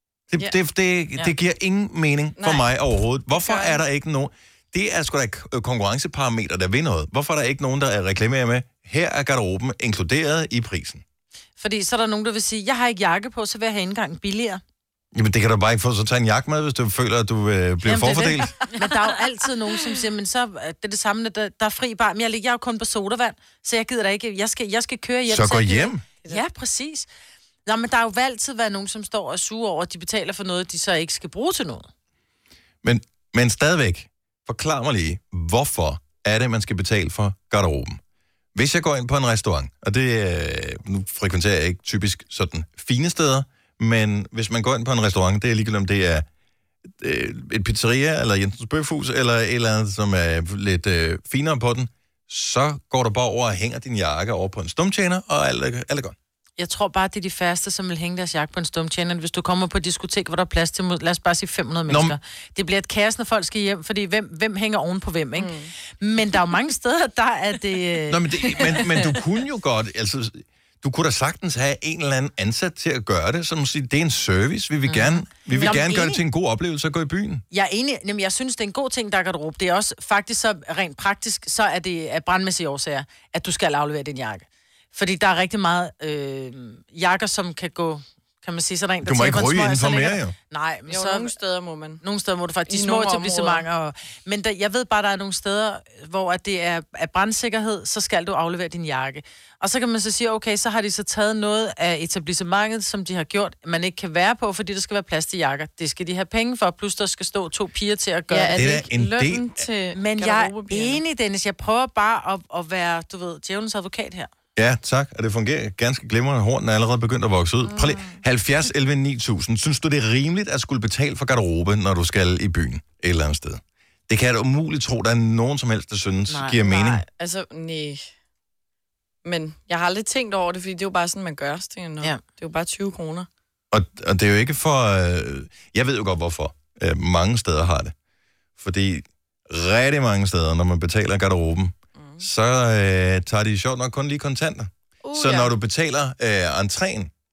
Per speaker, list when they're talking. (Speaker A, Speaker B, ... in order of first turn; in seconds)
Speaker A: 0.3-11.0, 15.1-18.5, 25.3-26.0, 32.8-38.0, 38.5-46.3, 47.0-56.2, 61.9-62.2, 68.1-77.4, 89.0-90.3, 108.5-109.6, 114.6-127.0, 133.7-137.9, 138.6-147.1
Speaker B: 2.4-2.6, 3.3-3.8, 65.4-65.7, 90.9-92.0, 92.7-93.7, 108.3-111.0, 126.6-128.1, 129.2-133.3, 142.0-142.2, 145.0-145.5
Speaker C: 11.6-14.6, 17.8-27.1, 27.7-31.9, 56.6-68.5, 74.9-76.2, 77.5-91.3, 92.0-108.8, 109.9-114.3, 126.3-126.6